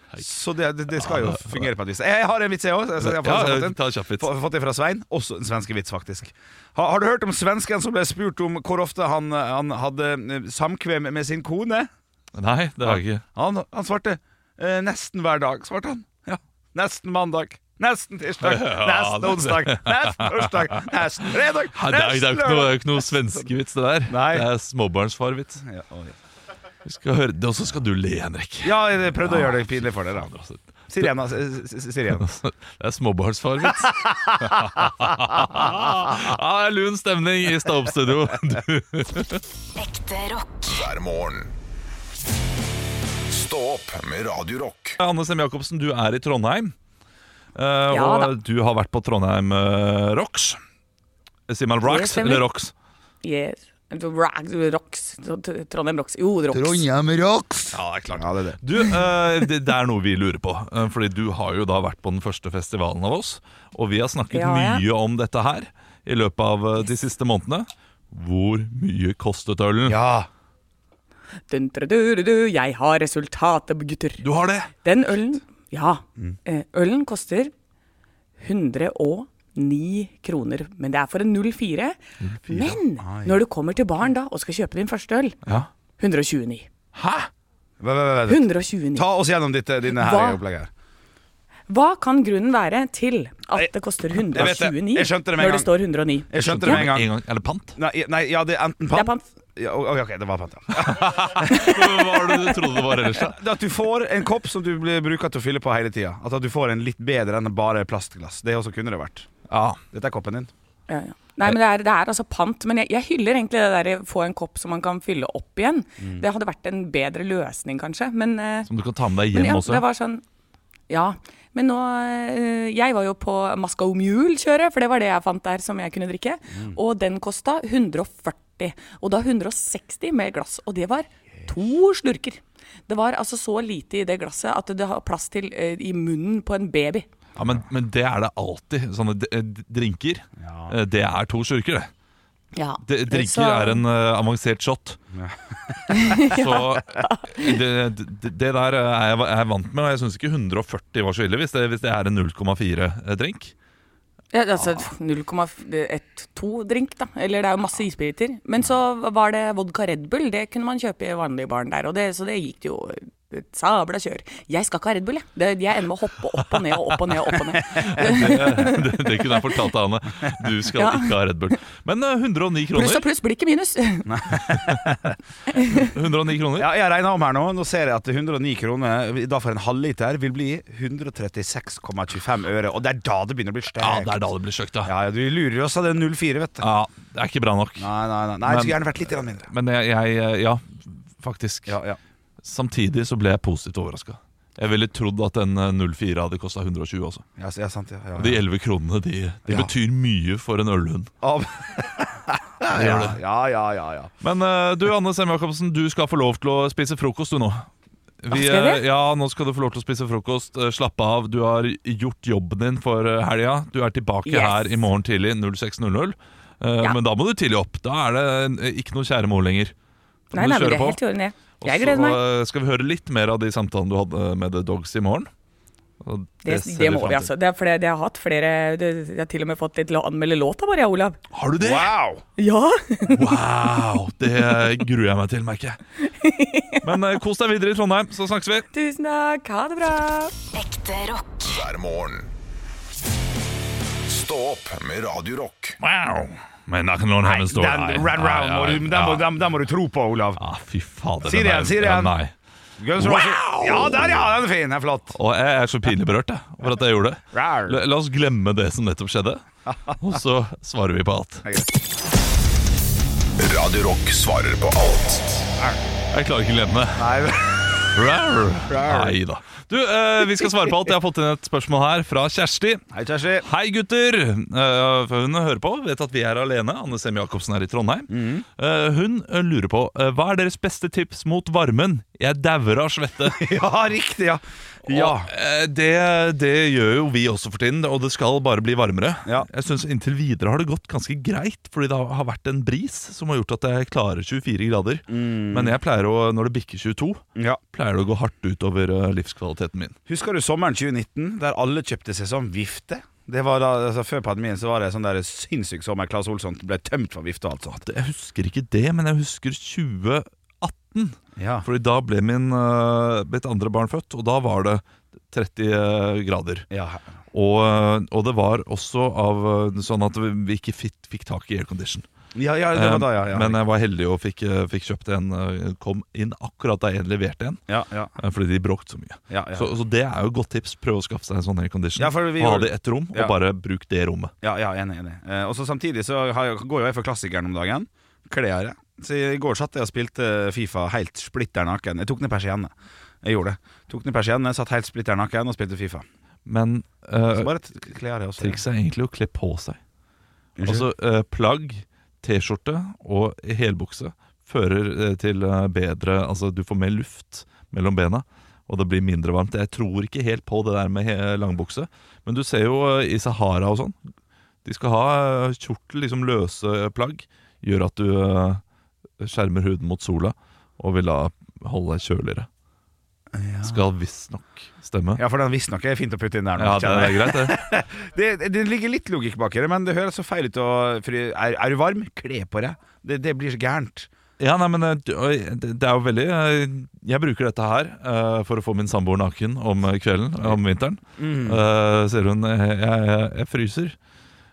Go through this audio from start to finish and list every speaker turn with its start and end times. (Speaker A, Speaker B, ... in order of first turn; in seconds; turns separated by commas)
Speaker A: 0.2-11.9, Speaker B: 0.9-1.7, Speaker B: 3.0-4.3, Speaker B: 12.3-13.2, Speaker A: 12.8-23.5, Speaker B: 18.4-25.6, Speaker A: 24.1-24.5, Speaker A: 25.6-26.1, Speaker B: 26.8-31.1, Speaker A: 28.6-30.3, Speaker A: 30.9-32.2, Speaker B: 32.1-39.4, Speaker A: 33.6-35.8, Speaker C: 39.8-40.7, Speaker D: 40.7-41.5, Speaker D: 43.3-45.0, Speaker B: 45.0-46.7, Speaker B: 47.5-50.6, Speaker E: 47.9-48.3, Speaker B: 51.5-52.7, Speaker E: 51.8-52.5, Speaker E: 53.2-56.9, Speaker A: 56.5-58.9, Speaker B: 57.7-70.0, Speaker E: 64.3-64.8, Speaker A: 69.8-70.3, Speaker E: 71.5-74.2, Speaker B: 74.2-74.7, Speaker E: 74.8-77.5, Speaker E: 78.4-85.4, Speaker B: 82.2-82.8, Speaker A: 83.0-83.4, Speaker E: 86.0-86.7, Speaker B: 86.9-87.3, Speaker A: 87.8-90.7, Speaker E: 88.3-89.1, Speaker E: 89.9-90.4, Speaker E: 91.7-96.9, Speaker A: 94.3-95.7, Speaker A: 96.3-97.1, Speaker B: 96.4-97.8, Speaker A: 97.8-101.6, Speaker E: 98.9-99.2, Speaker B: 100.8-103.4, Speaker E: 101.6-102.2, Speaker A: 103.1-109.3, Speaker B: 109.5-109.8, Speaker A: 109.9-110.5, Speaker E: 110.9-118.7, Speaker A: 116.0-116.2, Speaker B: 118.7-119.8, Speaker E: 119.3-120.2, Speaker E: 120.9-137.1, Speaker B: 137.3-141.9, Speaker A: 140.4-140.8, Speaker E: 142.5-143.8, Speaker B: 142.8-145.0, Speaker A: 145.1-146.2, Speaker E: 145.9-147.6, Speaker B: 146.2-153.5, Speaker E: 154.3-169.6, Speaker B: 167.7-173.1, Speaker E: 170.7-171.2, Speaker E: 172.7-174.5, Speaker A: 174.1-175.2, Speaker B: 174.4-174.8, Speaker E: 175.5-175.9, Speaker B: 175.7-176.7, Speaker A: 176.6-184.2, Speaker B: 183.8-184.9, Speaker A: 184.8-186.6, Speaker B: 186.6-187.9, Speaker A: 187.8-189.5, Speaker B: 188.4-191.8, Speaker A: 191.7-192.0, Speaker B: 192.4-197.2, Speaker A: 197.4-198.4, Speaker B: 198.2-201.1, Speaker A: 199.4-199.7, Speaker A: 201.2-204.1, Speaker B: 202.7-203.2, Speaker B: 204.2-207.7, Speaker B: 208.2-219.7, Speaker E: 208.3-208.8, Speaker E: 214.2-214.8, Speaker B: 220.3-221.0, Speaker E: 220.3-222.2, Speaker B: 221.6-225.3, Speaker B: 226.0-227.3, Speaker E: 226.4-231.2, Speaker B: 231.3-231.9, Speaker A: 231.6-232.2, Speaker E: 232.4-233.4, Speaker B: 233.0-235.8, Speaker E: 236.0-236.9, Speaker B: 236.8-238.7, Speaker E: 238.7-240.3, Speaker C: 240.5-241.6, Speaker D: 241.4-242.3, Speaker D: 244.1-245.8, Speaker B: 245.8-249.3, Speaker A: 247.2-250.4, Speaker B: 250.4-252.3, Speaker A: 251.2-252.1, Speaker A: 252.8-255.2, Speaker B: 253.0-254.3, Speaker B: 255.1-261.5, Speaker A: 257.3-257.8, Speaker A: 259.6-260.0, Speaker D: 263.4-265.4, Speaker B: 266.1-267.1, Speaker A: 266.9-268.0, Speaker B: 267.9-272.8, Speaker A: 268.7-269.2, Speaker A: 272.9-273.4, Speaker B: 273.4-283.4, Speaker A: 278.1-278.4, Speaker A: 283.3-285.3, Speaker B: 284.8-299.9, Speaker A: 295.1-295.8, Speaker A: 300.1-307.8, Speaker B: 307.7-316.7, Speaker A: 311.4-311.6, Speaker A: 316.7-317.0, Speaker B: 317.3-322.1, Speaker A: 322.3-323.6, Speaker B: 322.7-327.6, Speaker A: 327.7-328.1, Speaker B: 328.1-334.3, Speaker A: 329.3-329.7, Speaker A: 332.0-333.3, Speaker A: 334.4-346.0, Speaker B: 346.4-347.5, Speaker A: 347.3-348.6, Speaker B: 348.4-349.8, Speaker A: 350.6-350.9, Speaker B: 350.6-364.0, Speaker B: 364.6-368.6, Speaker B: 369.2-372.5, Speaker A: 373.3-373.8, Speaker B: 373.6-375.2, Speaker A: 375.2-384.1, Speaker B: 376.6-377.6, Speaker B: 384.4-393.9, Speaker A: 391.2-391.6